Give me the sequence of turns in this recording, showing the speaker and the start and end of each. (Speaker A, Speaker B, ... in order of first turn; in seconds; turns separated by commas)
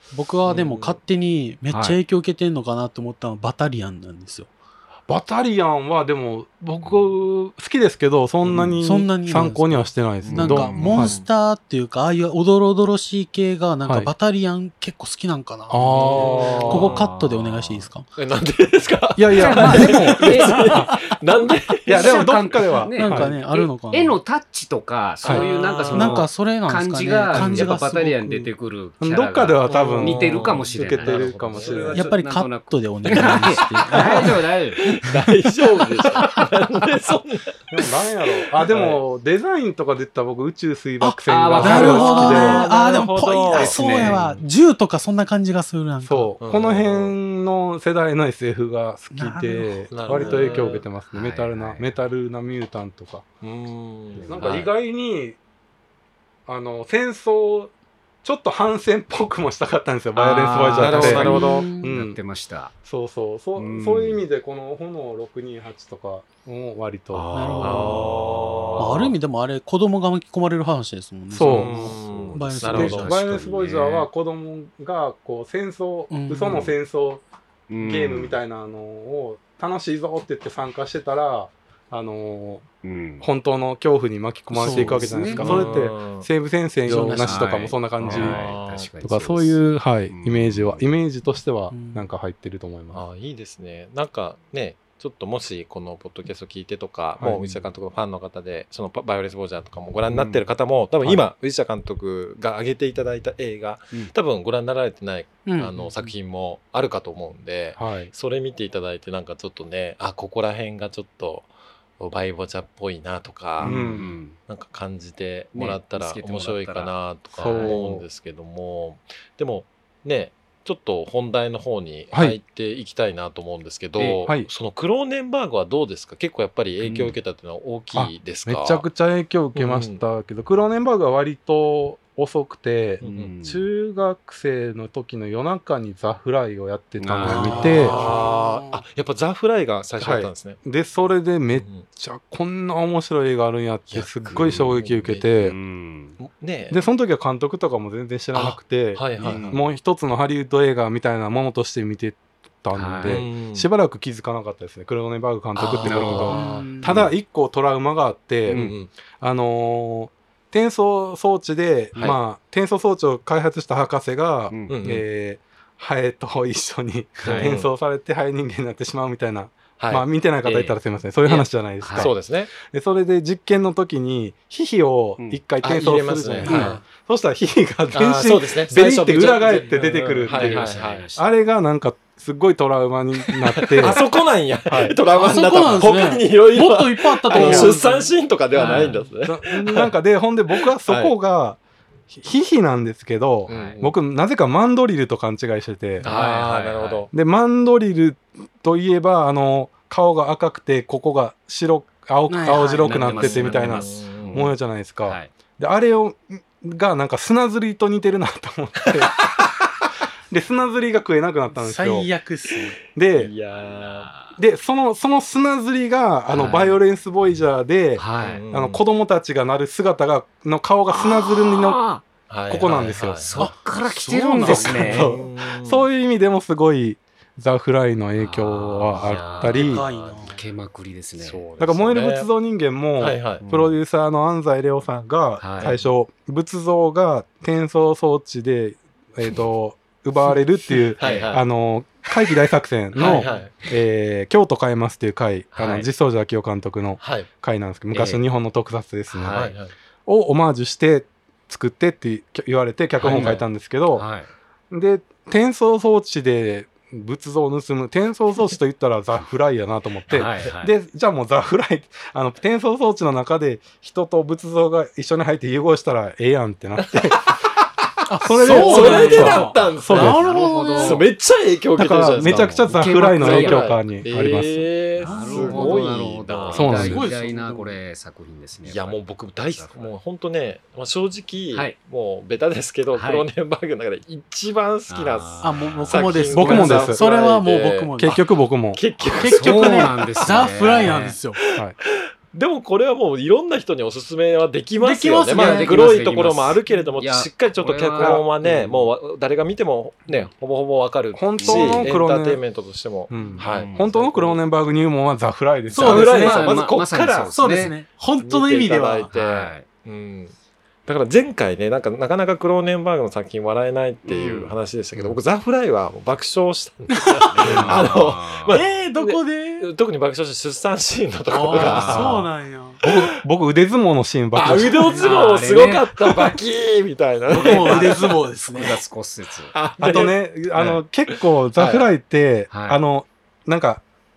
Speaker A: 0.1-4.5, Speaker B: 0.4-1.0, Speaker C: 1.7-2.0, Speaker C: 5.1-11.2, Speaker B: 8.4-8.8, Speaker A: 8.8-18.1, Speaker B: 10.2-11.3, Speaker C: 13.8-14.1, Speaker C: 15.7-16.9, Speaker D: 15.9-17.9, Speaker B: 16.1-17.1, Speaker B: 18.1-22.2, Speaker C: 19.1-20.1, Speaker D: 19.4-21.0, Speaker A: 19.4-20.9, Speaker C: 21.9-23.4, Speaker D: 21.9-34.9, Speaker A: 22.9-24.2, Speaker B: 25.2-26.2, Speaker A: 25.9-28.5, Speaker B: 27.4-27.7, Speaker C: 29.0-32.0, Speaker B: 29.6-32.1, Speaker A: 31.8-34.4, Speaker B: 34.8-37.9, Speaker A: 35.1-36.0, Speaker D: 36.2-36.5, Speaker C: 37.7-42.6, Speaker B: 38.6-39.0, Speaker A: 41.0-46.3, Speaker D: 41.3-42.6, Speaker B: 41.6-44.2, Speaker D: 43.5-44.4, Speaker C: 46.0-53.2, Speaker B: 46.4-47.1, Speaker A: 49.1-50.7, Speaker B: 49.9-50.8, Speaker D: 51.1-51.9, Speaker B: 53.4-54.4, Speaker D: 54.1-54.7, Speaker C: 54.2-55.4, Speaker C: 56.5-57.7, Speaker C: 58.2-62.2, Speaker B: 60.1-61.6, Speaker D: 60.4-62.7, Speaker A: 61.0-61.9, Speaker C: 62.8-67.6, Speaker D: 63.5-64.2, Speaker B: 67.1-69.1, Speaker A: 67.3-68.2, Speaker A: 68.8-73.1, Speaker C: 71.3-71.9, Speaker B: 71.4-73.1, Speaker D: 71.8-74.1, Speaker C: 72.7-77.2, Speaker A: 76.1-76.7, Speaker D: 77.7-78.3, Speaker C: 77.8-82.6, Speaker D: 82.8-83.2, Speaker C: 83.2-88.5, Speaker A: 84.6-85.5, Speaker D: 84.6-85.5, Speaker B: 85.3-86.3, Speaker A: 86.8-87.7, Speaker D: 87.2-90.8, Speaker B: 88.0-88.9, Speaker C: 89.0-93.0, Speaker A: 91.7-92.1, Speaker B: 92.9-128.8, Speaker C: 97.2-97.6, Speaker D: 100.1-100.4, Speaker A: 105.5-106.1, Speaker C: 107.8-108.1, Speaker C: 113.6-114.1, Speaker D: 113.6-114.4, Speaker D: 115.5-117.8, Speaker C: 117.3-118.0, Speaker C: 122.1-122.4, Speaker D: 124.0-124.3, Speaker D: 126.8-127.1, Speaker C: 127.9-138.0, Speaker B: 129.5-130.0, Speaker B: 133.0-133.3, Speaker D: 133.0-133.6, Speaker D: 137.0-138.1, Speaker A: 137.2-138.8, Speaker B: 137.4-140.6, Speaker C: 140.0-145.6, Speaker B: 141.5-141.8, Speaker B: 143.9-145.3, Speaker D: 145.4-146.2, Speaker B: 146.2-146.8, Speaker C: 146.7-158.7, Speaker B: 148.3-149.6, Speaker D: 149.2-149.6, Speaker D: 152.7-153.2, Speaker B: 153.0-153.7, Speaker D: 155.6-156.4, Speaker B: 155.7-157.1, Speaker A: 156.3-157.0, Speaker D: 158.5-158.8, Speaker B: 158.5-158.9, Speaker C: 159.2-184.0, Speaker D: 164.5-164.8, Speaker B: 164.7-165.0, Speaker D: 167.2-167.6, Speaker B: 167.2-167.7, Speaker B: 169.8-170.1, Speaker D: 170.4-170.8, Speaker B: 171.2-172.5, Speaker D: 171.3-172.1, Speaker B: 175.6-176.8, Speaker A: 176.4-176.8, Speaker D: 176.5-176.8, Speaker B: 177.9-181.1, Speaker D: 180.2-181.3, Speaker B: 183.6-189.9, Speaker C: 184.7-184.9, Speaker A: 185.1-188.1, Speaker C: 187.3-187.9, Speaker D: 188.6-189.0, Speaker C: 188.6-191.6, Speaker B: 190.6-191.1, Speaker C: 192.1-196.1, Speaker D: 193.5-193.8, Speaker B: 193.5-193.9, Speaker D: 196.0-197.1, Speaker B: 196.0-197.1, Speaker C: 197.1-209.5, Speaker A: 202.3-203.0, Speaker D: 202.8-204.5, Speaker B: 202.9-204.5, Speaker D: 205.0-205.3, Speaker C: 210.3-212.1, Speaker A: 211.5-212.8, Speaker C: 212.9-213.3, Speaker B: 213.1-214.1, Speaker D: 213.5-214.4, Speaker C: 214.4-221.8, Speaker D: 216.3-216.8, Speaker D: 218.0-218.4, Speaker B: 218.2-218.8, Speaker D: 220.9-222.0, Speaker B: 222.3-223.5, Speaker C: 222.5-223.3, Speaker D: 223.2-225.1, Speaker A: 223.4-225.2, Speaker C: 224.3-229.9, Speaker B: 224.5-225.8, Speaker D: 228.2-229.4, Speaker B: 228.9-230.4, Speaker A: 229.4-230.4, Speaker D: 230.2-231.4, Speaker B: 231.2-232.3, Speaker C: 231.6-249.5, Speaker B: 233.0-233.4, Speaker D: 233.4-233.7, Speaker D: 235.4-235.8, Speaker B: 235.6-235.8, Speaker D: 241.0-241.4, Speaker B: 241.0-241.4, Speaker D: 242.9-243.3, Speaker B: 242.9-243.5, Speaker B: 245.5-245.9, Speaker B: 247.0-247.3, Speaker D: 247.9-248.2, Speaker D: 249.1-249.5, Speaker B: 249.2-249.7, Speaker C: 250.1-254.1, Speaker D: 253.0-254.3, Speaker B: 253.0-253.4, Speaker C: 254.7-267.3, Speaker D: 260.1-260.7, Speaker B: 266.8-267.4, Speaker A: 268.1-271.1, Speaker C: 268.2-270.2, Speaker B: 268.4-270.2, Speaker D: 268.6-271.1, Speaker B: 270.8-276.9, Speaker C: 271.8-274.7, Speaker D: 272.2-273.7, Speaker D: 275.0-279.9, Speaker A: 275.0-275.9, Speaker C: 276.5-277.1, Speaker A: 276.6-277.8, Speaker B: 278.6-304.4, Speaker D: 282.9-283.2, Speaker D: 284.9-286.3, Speaker A: 285.4-288.2, Speaker C: 286.3-287.0, Speaker C: 288.0-288.8, Speaker A: 289.1-291.4, Speaker D: 289.4-291.2, Speaker A: 294.8-296.0, Speaker D: 295.3-298.2, Speaker C: 298.0-298.9, Speaker C: 301.1-302.4, Speaker D: 301.4-301.9, Speaker C: 303.1-306.3, Speaker D: 303.4-304.1, Speaker A: 305.7-306.5, Speaker B: 305.7-310.3, Speaker D: 305.9-307.7, Speaker A: 307.3-309.1, Speaker D: 309.1-309.6, Speaker B: 310.9-322.1, Speaker D: 314.1-314.5, Speaker A: 317.0-317.9, Speaker D: 317.3-318.6, Speaker C: 317.5-317.9, Speaker A: 318.5-319.7, Speaker A: 321.3-322.8, Speaker D: 321.5-322.1, Speaker C: 321.8-322.3, Speaker C: 322.8-324.9, Speaker B: 324.3-328.7, Speaker A: 324.8-325.1, Speaker D: 324.9-326.2, Speaker A: 327.3-328.8, Speaker D: 327.3-329.5, Speaker B: 329.5-331.9, Speaker C: 329.8-333.8, Speaker D: 332.5-332.8